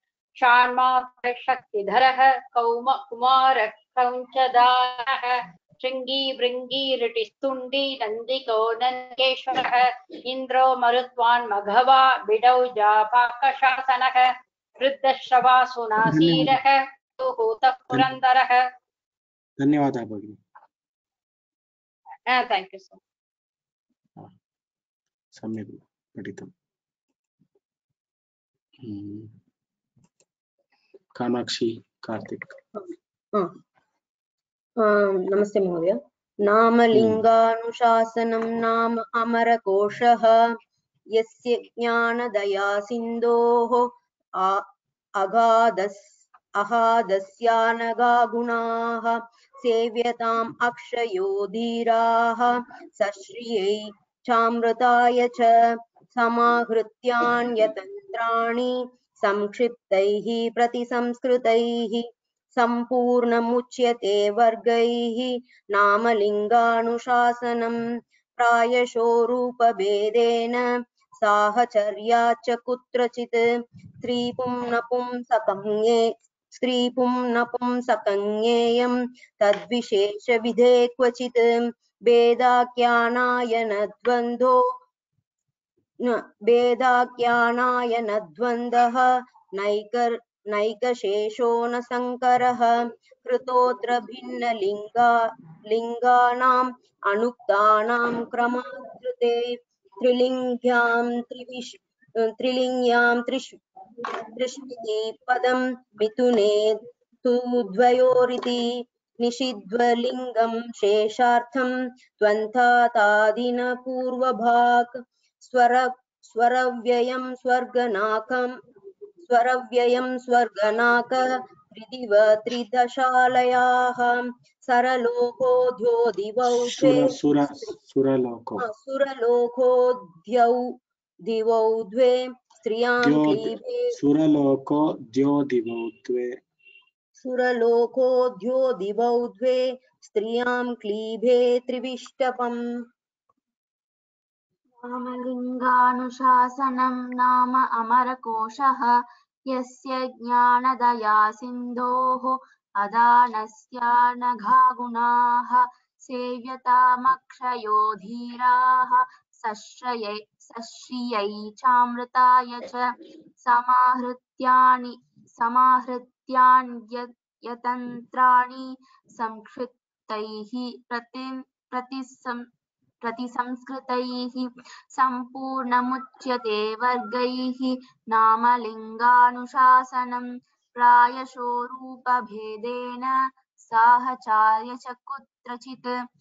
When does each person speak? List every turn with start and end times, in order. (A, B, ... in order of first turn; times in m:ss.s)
0:00.4-0:18.6 A
0:16.0-0:16.6 B
0:19.6-0:20.4 B
0:22.3-0:23.0 A
0:25.3-0:26.5 B
0:28.8-0:29.4 B
0:31.2-0:32.6 B
0:34.8-0:40.5 C
0:36.9-0:37.2 B
0:41.2-0:44.7 C
0:45.2-1:07.8 C
1:08.4-1:10.7 C
1:11.2-1:13.4 C
1:14.0-1:24.6 C
1:26.0-1:43.6 C
1:44.1-1:58.6 C
1:59.3-2:07.2 C
2:06.5-2:08.6 B
2:08.6-2:14.0 C
2:13.0-2:16.4 B
2:17.2-2:22.6 C
2:24.8-2:28.9 D
2:29.5-2:52.4 D
2:53.0-3:05.9 D